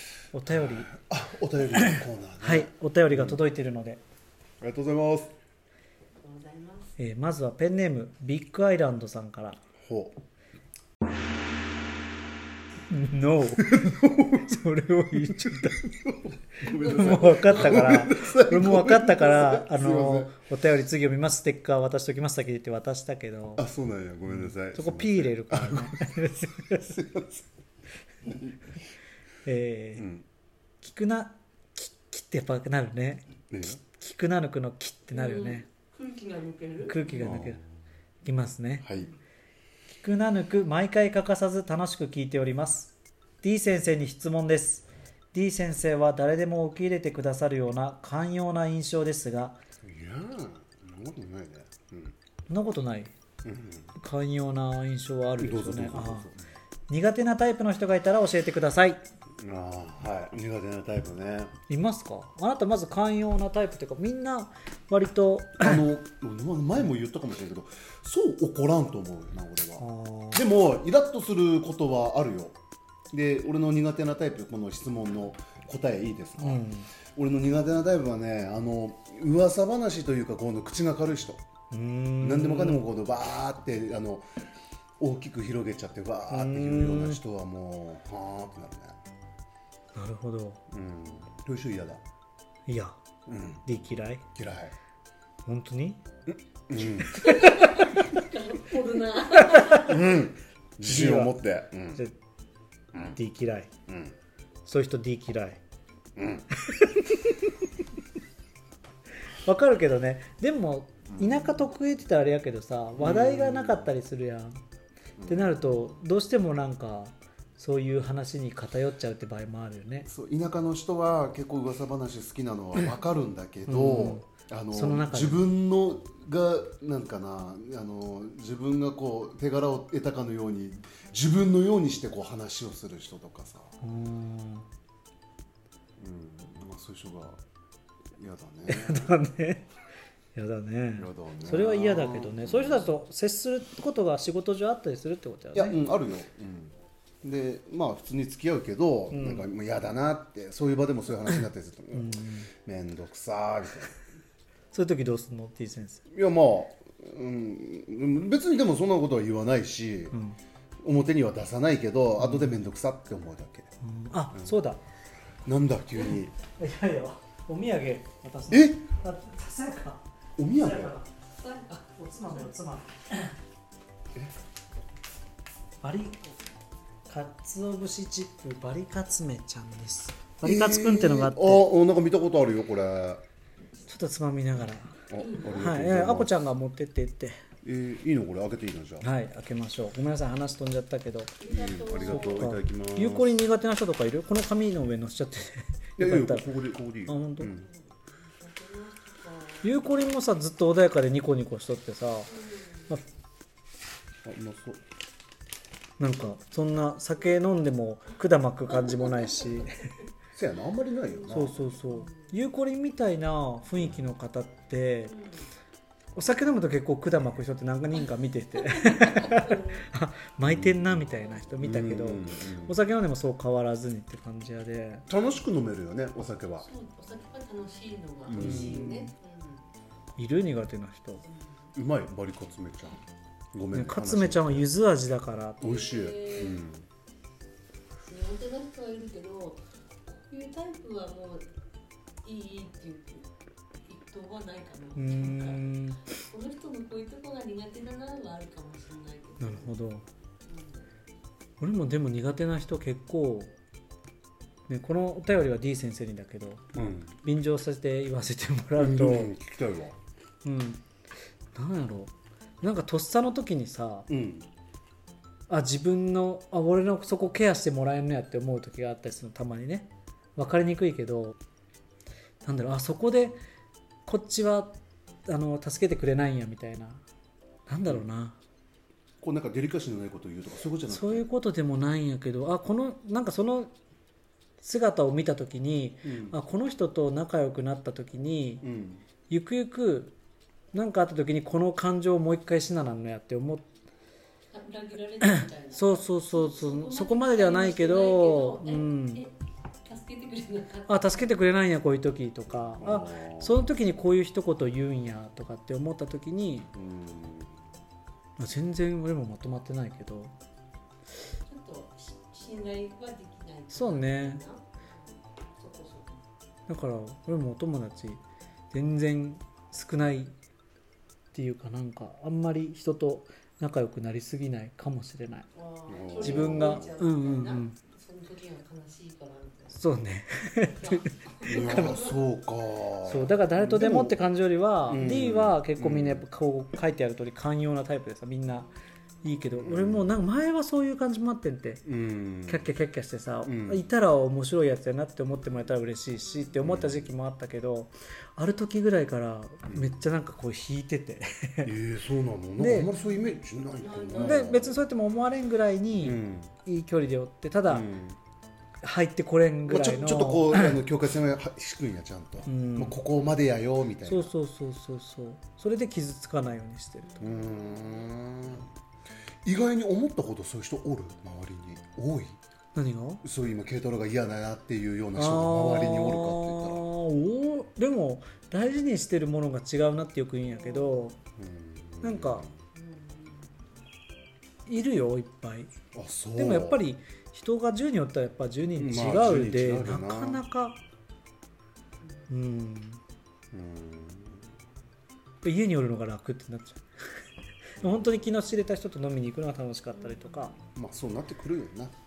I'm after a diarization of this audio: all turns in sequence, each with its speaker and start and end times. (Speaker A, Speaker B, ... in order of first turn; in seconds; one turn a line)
Speaker A: 0.3-0.9
Speaker B: 0.9-3.4
Speaker A: 1.8-4.0
Speaker B: 4.6-5.3
Speaker C: 6.2-6.9
Speaker A: 7.0-9.6
Speaker B: 9.8-10.1
Speaker A: 12.9-15.9
Speaker B: 13.6-14.5
Speaker B: 15.1-20.4
Speaker A: 16.6-23.6
Speaker C: 16.6-18.1
Speaker B: 23.6-26.0
Speaker A: 24.3-26.9
Speaker B: 26.7-27.4
Speaker A: 29.4-30.1
Speaker B: 30.0-30.2
Speaker A: 30.8-33.3
Speaker B: 33.5-33.8
Speaker A: 33.8-35.7
Speaker C: 35.1-37.3
Speaker A: 36.9-37.6
Speaker B: 37.2-37.6
Speaker A: 38.2-38.9
Speaker B: 38.8-39.1
Speaker A: 39.9-49.6
Speaker B: 49.8-52.1
Speaker A: 52.5-53.1
Speaker B: 53.4-53.9
Speaker A: 54.0-56.3
Speaker B: 55.4-56.4
Speaker A: 56.9-59.0
Speaker B: 59.4-61.6
Speaker A: 61.7-65.8
Speaker B: 65.6-72.6
Speaker A: 69.8-70.4
Speaker B: 73.1-76.6
Speaker A: 76.4-76.9
Speaker B: 77.1-81.4
Speaker A: 81.7-82.9
Speaker B: 82.2-84.2
Speaker B: 85.0-89.0
Speaker A: 86.3-87.2
Speaker A: 89.9-90.6
Speaker B: 90.7-92.0
Speaker A: 92.7-93.0
Speaker B: 93.3-93.6
Speaker A: 93.6-94.2
Speaker B: 94.3-94.7
Speaker A: 95.4-96.0
Speaker B: 96.3-97.3
Speaker C: 97.0-100.1
Speaker A: 97.2-97.7
Speaker A: 99.5-99.8
Speaker B: 99.8-102.0
Speaker A: 100.8-102.1
Speaker A: 103.1-103.7
Speaker B: 103.9-104.1
Speaker A: 104.7-105.6
Speaker B: 106.2-106.5
Speaker A: 106.7-107.4
Speaker A: 109.3-114.5
Speaker B: 111.1-111.6
Speaker B: 113.0-113.9
Speaker B: 115.2-116.0
Speaker A: 115.3-120.1
Speaker B: 120.0-133.7
Speaker A: 123.7-125.5
Speaker A: 133.8-134.7
Speaker B: 136.0-137.4
Speaker B: 138.2-139.2
Speaker A: 138.7-139.7
Speaker A: 140.3-145.8
Speaker B: 141.0-142.9
Speaker B: 145.5-153.9
Speaker A: 149.1-149.5
Speaker A: 151.9-152.5
Speaker A: 154.7-156.0
Speaker B: 156.1-160.1
Speaker B: 160.8-163.7
Speaker A: 162.2-162.5
Speaker A: 163.8-164.8
Speaker B: 165.4-166.3
Speaker A: 166.5-171.1
Speaker B: 168.5-168.8
Speaker B: 170.4-170.9
Speaker C: 171.4-171.8
Speaker A: 171.7-173.3
Speaker A: 175.8-176.2
Speaker A: 177.1-181.7
Speaker B: 180.4-183.2
Speaker A: 183.9-187.4
Speaker B: 185.1-186.3
Speaker B: 187.6-189.0
Speaker A: 189.0-191.4
Speaker C: 191.4-192.5
Speaker B: 191.5-193.4
Speaker A: 192.0-196.5
Speaker B: 196.0-197.7
Speaker A: 197.1-197.5
Speaker C: 197.6-199.7
Speaker A: 199.6-202.3
Speaker C: 202.3-202.9
Speaker B: 204.2-204.8
Speaker A: 206.0-209.8
Speaker C: 208.7-210.0
Speaker B: 210.3-211.6
Speaker C: 211.1-212.3
Speaker A: 211.3-215.2
Speaker C: 215.1-215.4
Speaker A: 216.1-225.0
Speaker C: 218.7-219.8
Speaker B: 220.4-221.1
Speaker B: 221.6-222.8
Speaker B: 225.1-226.7
Speaker C: 226.6-229.6
Speaker B: 228.3-228.9
Speaker A: 228.4-229.1
Speaker A: 230.2-231.2
Speaker C: 231.2-231.7
Speaker B: 231.7-233.0
Speaker B: 233.5-234.7
Speaker A: 233.7-235.6
Speaker B: 235.6-236.8
Speaker C: 235.6-236.6
Speaker C: 238.0-241.4
Speaker C: 242.2-243.3
Speaker C: 243.8-249.7
Speaker A: 245.0-246.0
Speaker A: 249.4-250.0
Speaker C: 250.4-250.8
Speaker A: 251.6-253.5
Speaker A: 254.7-259.3
Speaker B: 256.7-257.1
Speaker B: 258.8-259.9
Speaker A: 260.4-260.8
Speaker A: 261.5-264.1
Speaker B: 264.1-264.5
Speaker A: 265.5-271.4
Speaker A: 272.4-273.4
Speaker A: 274.1-274.7
Speaker A: 275.2-277.0
Speaker A: 277.7-278.4
Speaker B: 279.2-281.2
Speaker A: 280.9-283.7
Speaker A: 284.6-288.6
Speaker B: 286.0-286.4
Speaker B: 288.6-289.0
Speaker A: 289.3-290.1
Speaker A: 290.7-293.7
Speaker C: 294.5-301.4
Speaker A: 295.3-299.2
Speaker A: 300.9-306.7
Speaker B: 302.8-303.6
Speaker B: 306.7-307.6
Speaker A: 308.4-310.3
Speaker C: 311.5-316.2
Speaker A: 313.7-314.4
Speaker A: 316.7-320.3
Speaker A: 321.3-325.5
Speaker C: 325.5-329.8
Speaker B: 325.9-326.9
Speaker A: 326.2-327.8
Speaker A: 329.7-331.9
Speaker C: 330.8-332.2
Speaker B: 331.4-334.1
Speaker A: 333.0-338.7
Speaker B: 334.9-336.2
Speaker A: 339.2-341.8
Speaker B: 339.6-340.1
Speaker B: 341.8-342.7
Speaker A: 342.5-351.7
Speaker B: 343.4-343.9
Speaker B: 346.6-347.1
Speaker B: 349.6-349.9
Speaker B: 351.6-354.8
Speaker A: 352.6-352.9
Speaker C: 352.9-354.5
Speaker A: 354.2-357.9
Speaker B: 356.0-356.5
Speaker B: 357.7-358.2
Speaker A: 358.8-360.8
Speaker B: 359.6-364.3
Speaker A: 362.5-363.0
Speaker A: 364.0-367.2
Speaker C: 367.0-368.6
Speaker B: 367.2-368.7
Speaker B: 369.4-372.4
Speaker A: 372.7-373.2
Speaker B: 373.2-376.8
Speaker A: 375.1-381.2
Speaker C: 380.5-381.0
Speaker B: 381.4-382.6
Speaker A: 382.0-382.5
Speaker C: 382.7-383.6
Speaker A: 384.7-385.7
Speaker B: 385.9-386.8
Speaker A: 386.4-390.8
Speaker B: 388.8-390.4
Speaker A: 392.3-393.0
Speaker B: 393.5-394.5
Speaker A: 395.4-396.8
Speaker A: 397.8-400.5
Speaker B: 397.8-398.1
Speaker C: 399.9-400.7
Speaker B: 400.8-401.9